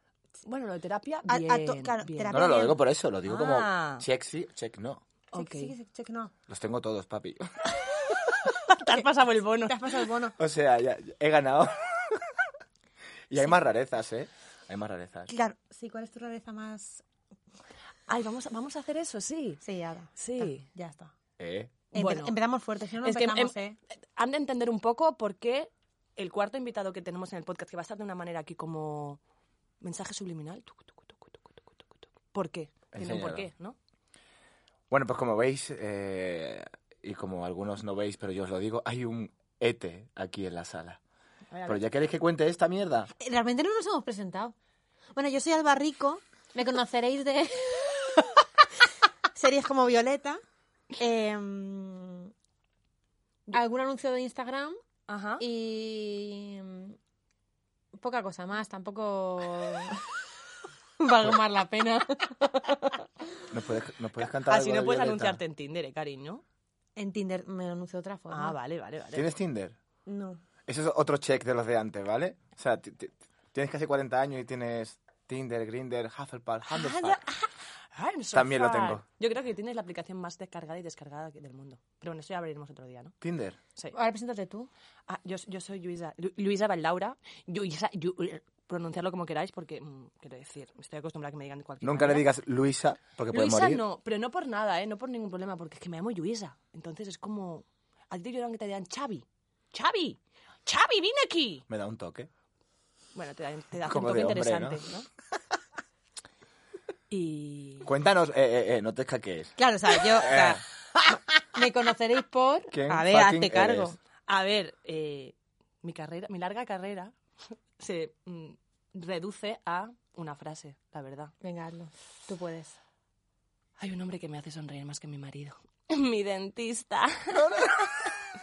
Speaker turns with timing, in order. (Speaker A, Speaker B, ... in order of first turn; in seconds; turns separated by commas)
Speaker A: 0.4-2.4, Speaker B: 1.3-2.8, Speaker C: 2.3-5.0, Speaker A: 3.3-4.0, Speaker A: 5.3-5.7, Speaker B: 5.3-6.3, Speaker C: 6.5-7.7, Speaker A: 8.5-9.8, Speaker B: 9.7-10.3, Speaker C: 10.4-12.3, Speaker C: 13.3-15.3, Speaker B: 15.3-17.0, Speaker A: 18.1-19.6, Speaker B: 19.6-21.1, Speaker A: 20.2-20.6, Speaker C: 21.4-21.7, Speaker A: 21.9-22.4, Speaker B: 21.9-23.8, Speaker A: 23.0-23.5, Speaker A: 24.1-29.2, Speaker A: 29.8-33.8, Speaker C: 32.9-33.5, Speaker C: 34.9-41.0, Speaker A: 41.5-41.8, Speaker C: 41.6-43.1, Speaker B: 43.2-44.5, Speaker B: 45.1-48.4, Speaker B: 49.3-50.4, Speaker B: 51.0-52.3, Speaker B: 53.5-54.8, Speaker A: 55.1-55.4, Speaker B: 55.4-57.0, Speaker B: 58.0-60.1, Speaker B: 61.0-63.1, Speaker C: 63.5-65.4, Speaker A: 64.2-66.4, Speaker B: 67.0-68.5, Speaker A: 68.3-69.3, Speaker C: 69.1-69.8, Speaker B: 70.0-70.4, Speaker C: 70.7-77.2, Speaker A: 76.7-83.2, Speaker C: 78.3-79.0, Speaker C: 83.2-83.6, Speaker B: 83.9-84.7, Speaker A: 85.1-92.2, Speaker C: 91.8-93.8, Speaker A: 93.3-101.6, Speaker C: 101.7-102.3, Speaker A: 103.1-105.1, Speaker C: 103.8-104.8, Speaker A: 107.1-107.9, Speaker C: 107.8-110.6, Speaker B: 109.6-114.0, Speaker C: 112.7-114.0, Speaker A: 114.3-117.1, Speaker A: 117.8-121.3, Speaker B: 121.4-122.8, Speaker A: 123.8-128.1, Speaker C: 127.3-128.1